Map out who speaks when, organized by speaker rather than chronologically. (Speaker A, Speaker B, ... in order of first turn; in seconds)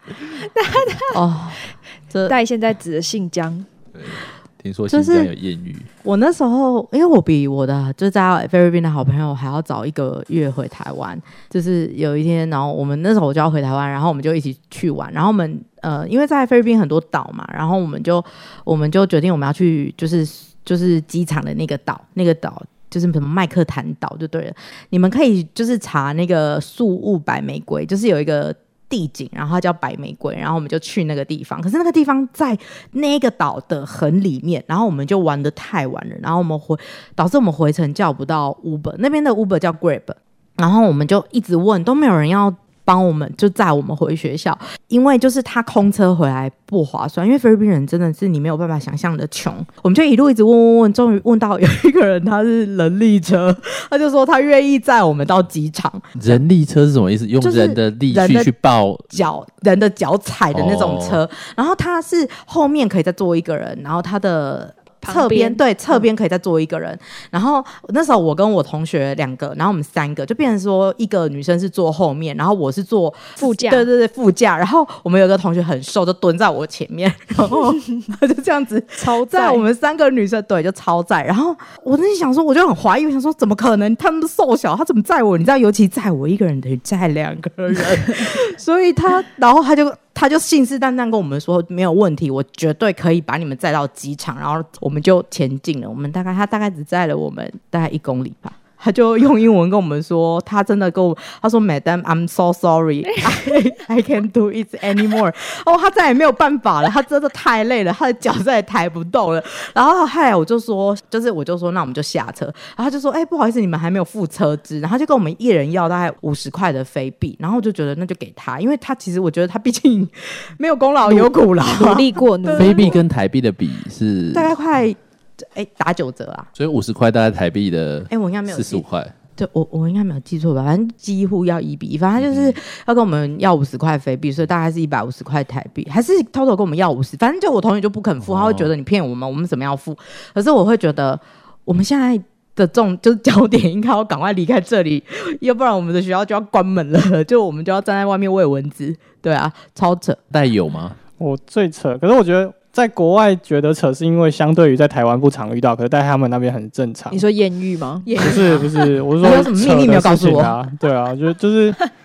Speaker A: 0.3-1.2, 2.3-3.7, 65.0-66.0, 73.4-73.9, 79.0-79.7, 121.0-123.0, 157.1-158.4
Speaker B: 1.1-2.3, 4.9-5.3, 6.0-56.4, 57.4-58.5, 59.1-123.0, 124.3-126.5, 128.1-128.8, 129.4-150.2, 158.1-160.6
Speaker C: 3.9-5.9, 56.1-59.1, 60.5-61.2, 122.5-124.5, 126.5-129.1, 132.2-132.6, 138.2-138.7, 150.3-151.0
Speaker D: 151.2-157.2, 158.2-161.8